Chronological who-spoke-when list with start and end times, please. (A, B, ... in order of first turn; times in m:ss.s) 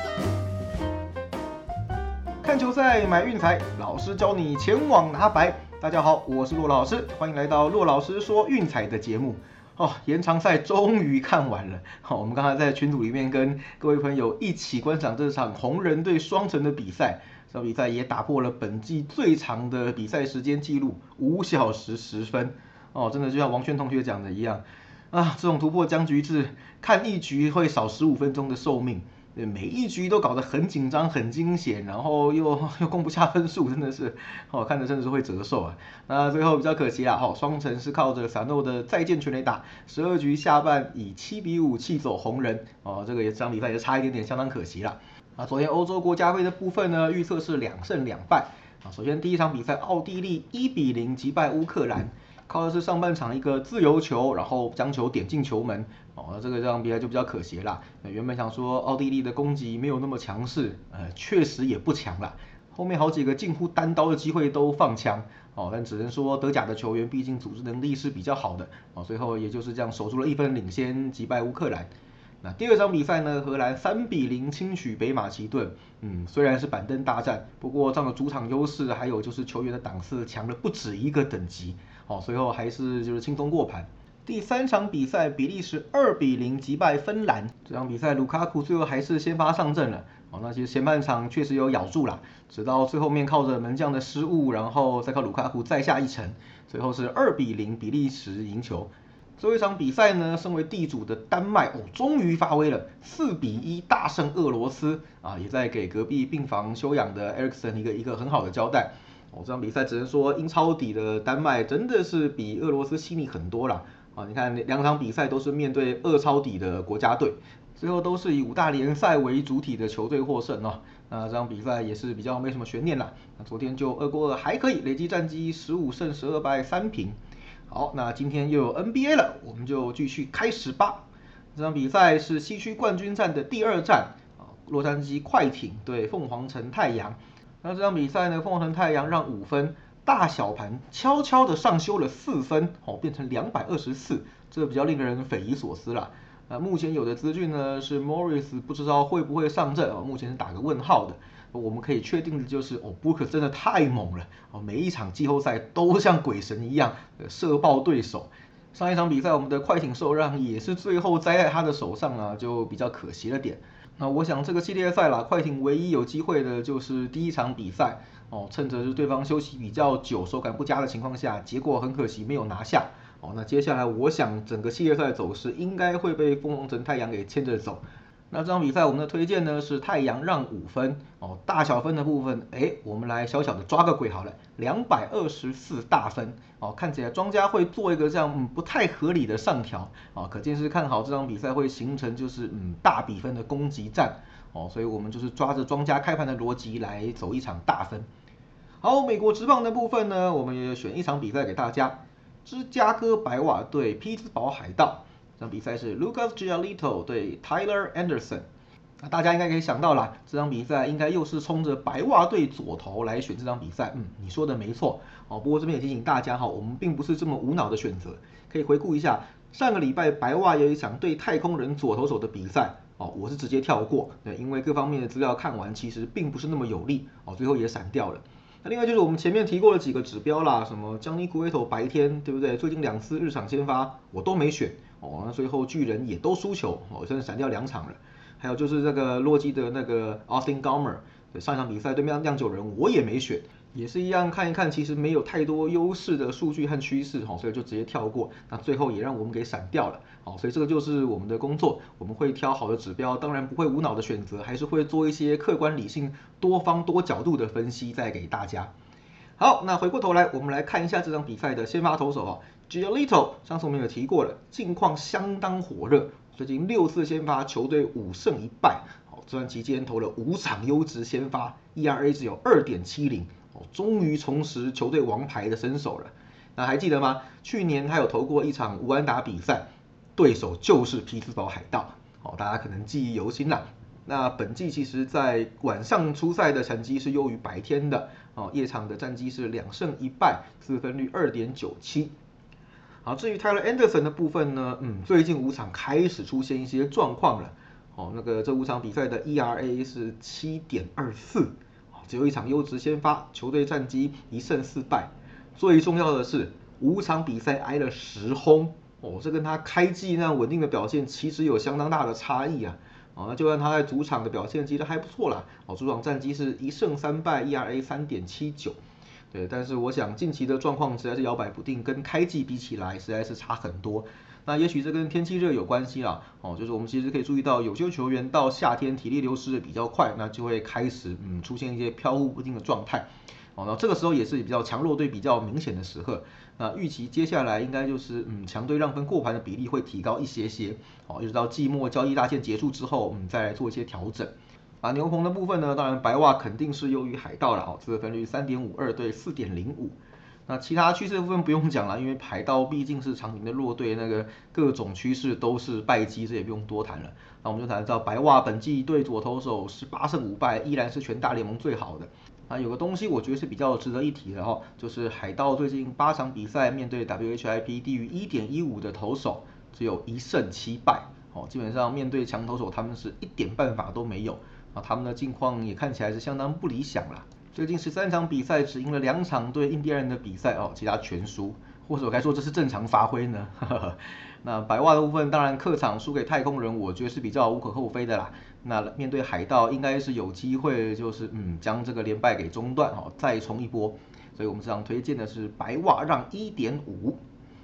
0:02.4-1:11.9 A
1:12.4-2:07.2 A
2:07.7-3:18.1 A
3:18.8-3:28.5 A
3:29.0-4:18.7 A
4:19.4-4:52.1 A
4:53.0-5:18.8 A
5:19.3-5:50.0 A
5:50.5-6:37.2 A